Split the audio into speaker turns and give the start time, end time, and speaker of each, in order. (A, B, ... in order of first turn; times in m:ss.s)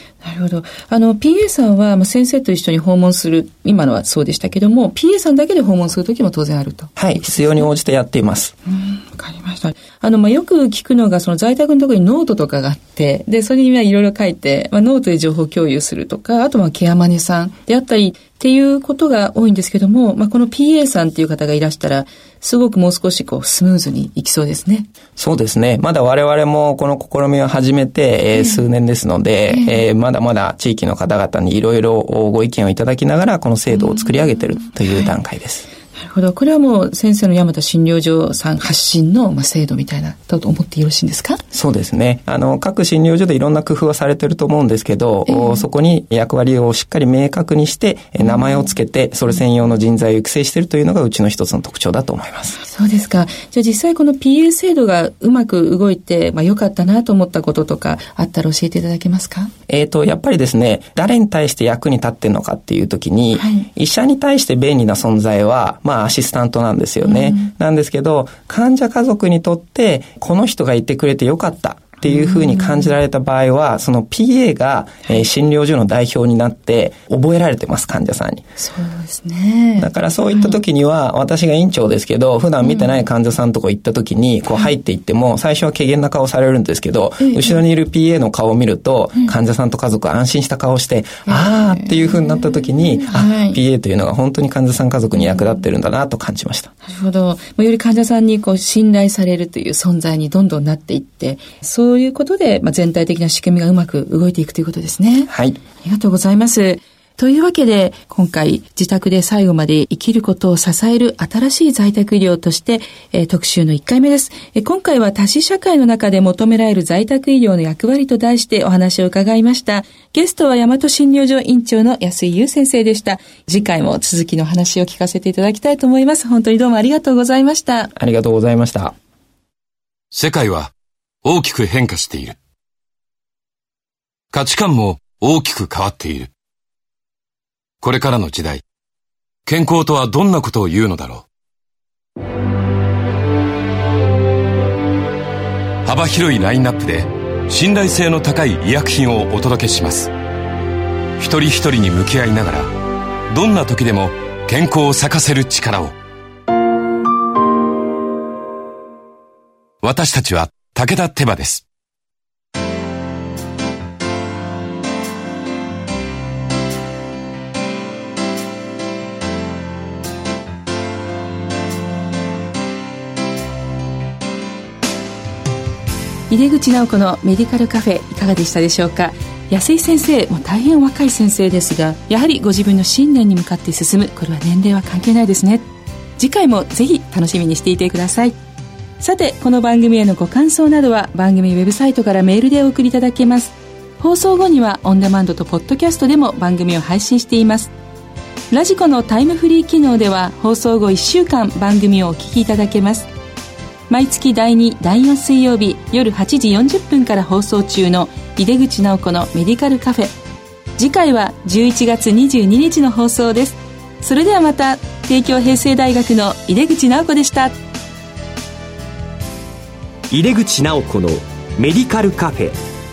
0:00.2-0:06.9 A
0:07.0-0:08.5 B
0:08.7-0:24.9 A
0:25.2-0:35.6 B
0:28.3-0:28.7 A
0:29.5-0:29.8 A
0:35.9-0:41.4 A
0:41.5-0:52.6 B
0:45.3-0:45.6 A
0:52.6-0:59.5 A
0:59.7-1:18.4 B
1:03.4-1:03.7 A
1:07.0-1:07.5 A
1:12.0-1:12.9 A
1:18.6-1:20.6 A
1:19.8-1:36.7 B
1:22.6-1:23.0 A
1:27.2-1:27.6 A
1:31.2-1:33.6 A
1:36.8-2:07.9 A
1:45.3-1:45.6 B
2:08.0-2:08.9 B
2:10.1-2:10.7 C
2:11.2-2:12.4 C
2:14.3-2:16.3 C
2:17.8-2:18.6 C
2:19.5-2:21.2 C
2:25.8-2:30.1 C
2:31.2-2:32.7 C
2:33.3-2:35.9 C
2:39.8-2:41.6 C
2:56.3-3:08.3 A
3:09.0-3:17.7 A
3:18.5-3:23.1 A
3:23.9-3:30.1 A
3:30.8-3:37.6 A
3:40.1-3:42.6 D